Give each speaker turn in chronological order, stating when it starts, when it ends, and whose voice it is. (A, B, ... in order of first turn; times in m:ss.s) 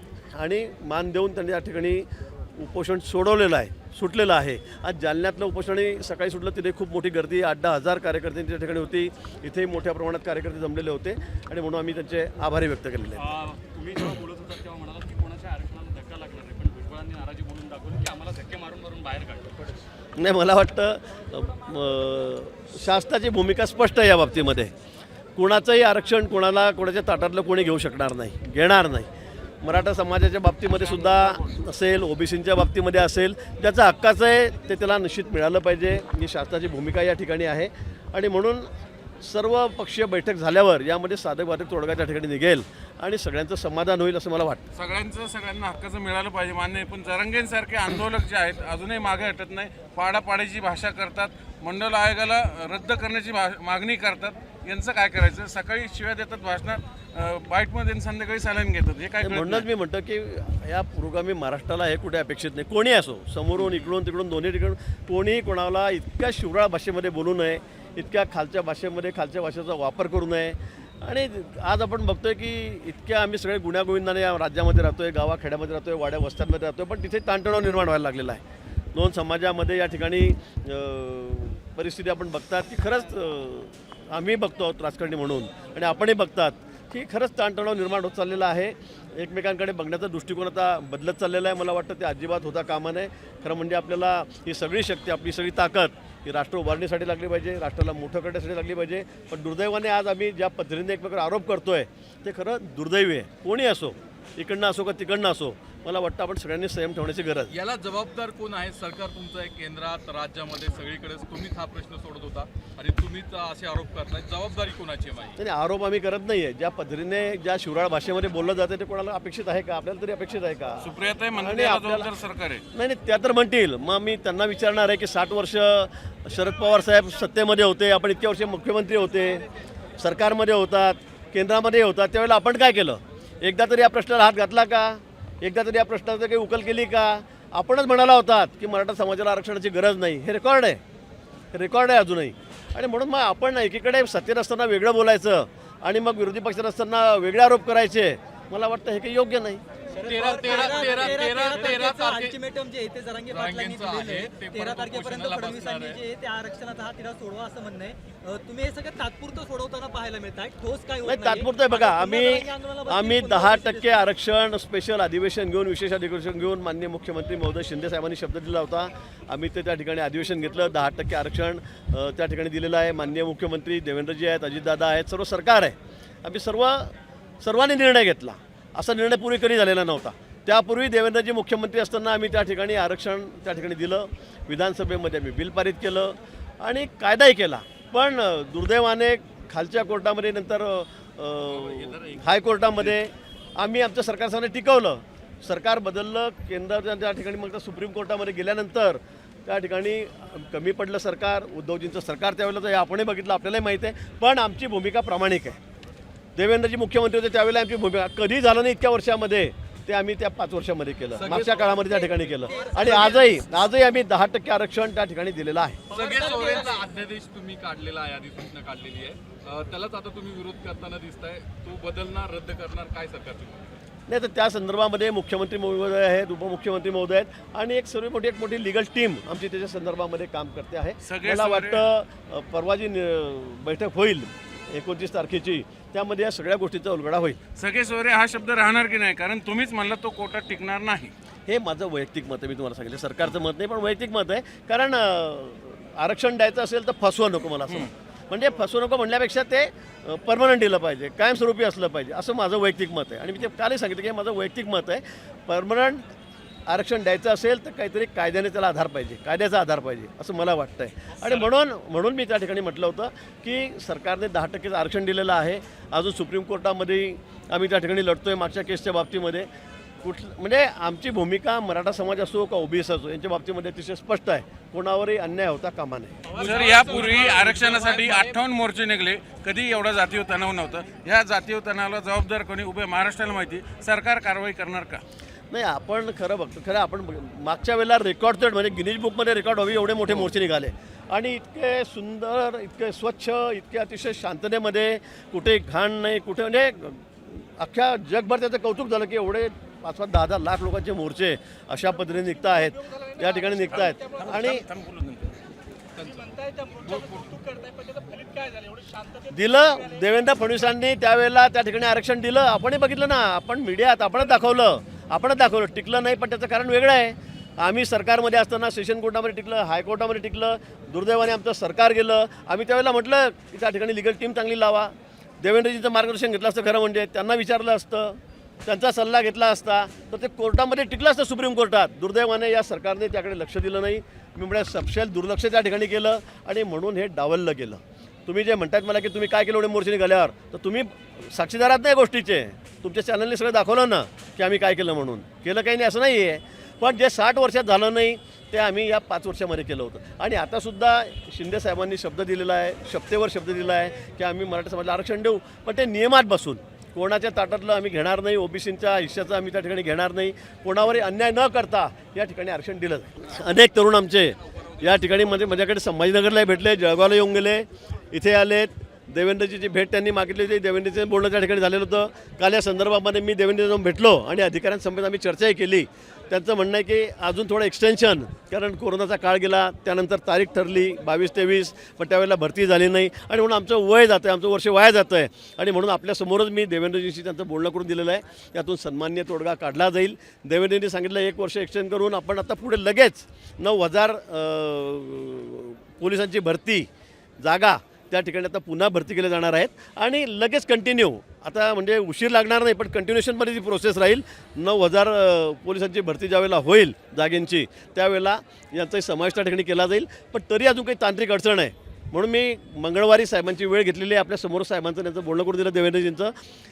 0:00.4-0:13.3 A
0:13.3-0:19.7 B
0:20.2-0:24.7 A
0:25.4-0:29.1 A
0:29.6-0:38.7 A
0:39.2-0:44.6 A
0:44.8-0:59.7 C
0:59.2-1:18.4 A
1:03.6-1:03.9 C
1:19.0-1:47.5 A
1:47.5-1:55.4 D
1:55.4-2:02.1 A
2:00.8-2:02.6 C
2:02.7-2:09.5 A
2:10.0-2:20.8 A
2:21.5-2:29.6 A
2:30.0-2:32.4 D
2:30.0-2:44.1 E
2:30.1-2:31.0 B
2:33.3-2:36.0 D
2:41.0-3:25.6 A
3:11.5-3:13.0 D
3:26.4-3:35.8 A
3:31.1-3:33.2 D
3:32.5-3:33.2 E
3:35.9-3:36.8 E
3:35.9-3:43.7 D
3:44.1-3:57.4 A
3:51.0-3:51.9 C
3:57.6-4:01.1 C
4:01.5-4:16.1 A
4:16.7-4:29.5 A
4:30.0-4:36.2 A
4:36.4-4:38.2 B
4:36.4-4:37.9 D
4:36.4-4:45.0 C
4:45.5-5:04.7 A
5:03.7-5:05.3 C
5:06.0-5:07.4 D
5:06.6-5:06.9 B
5:07.4-5:09.1 B
5:09.3-6:36.9 A
6:37.4-6:56.3 A